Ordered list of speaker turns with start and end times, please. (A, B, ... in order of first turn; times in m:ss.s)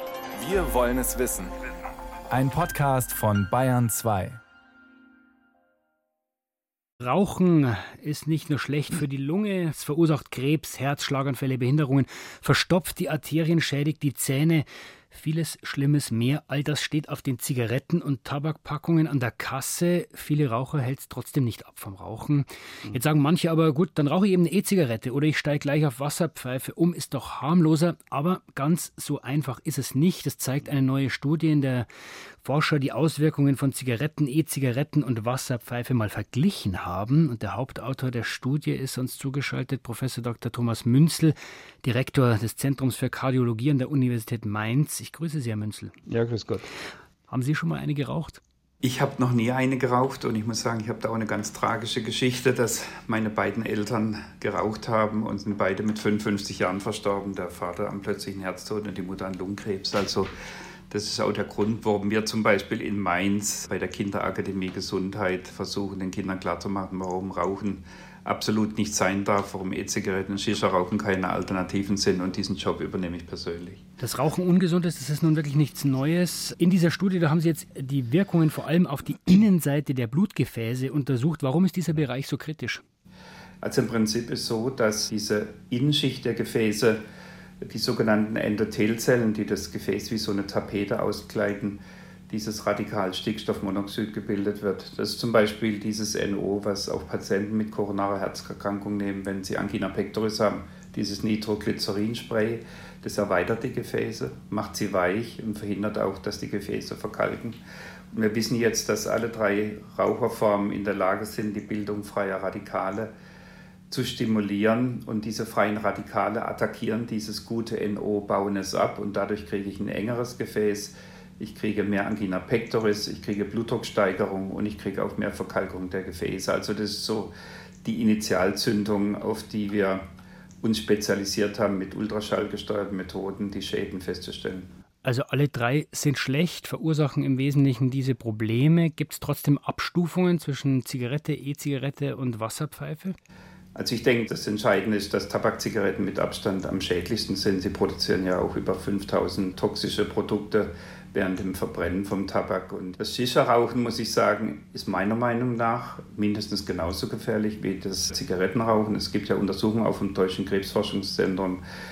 0:00.3-0:01.6 A
0:02.3-0:04.4 A
0:07.0-0:31.9 B
0:32.4-0:46.0 B
0:46.1-0:46.7 C
0:47.3-0:48.4 B
0:48.8-1:00.3 C
1:00.9-1:13.8 C
1:14.0-1:22.8 B
1:23.6-1:27.0 C
1:27.6-1:47.6 C
1:48.1-1:53.1 C
1:53.9-2:07.3 C
2:07.8-2:10.0 C
2:10.6-2:14.7 C
2:15.0-2:23.2 B
2:23.7-2:41.6 C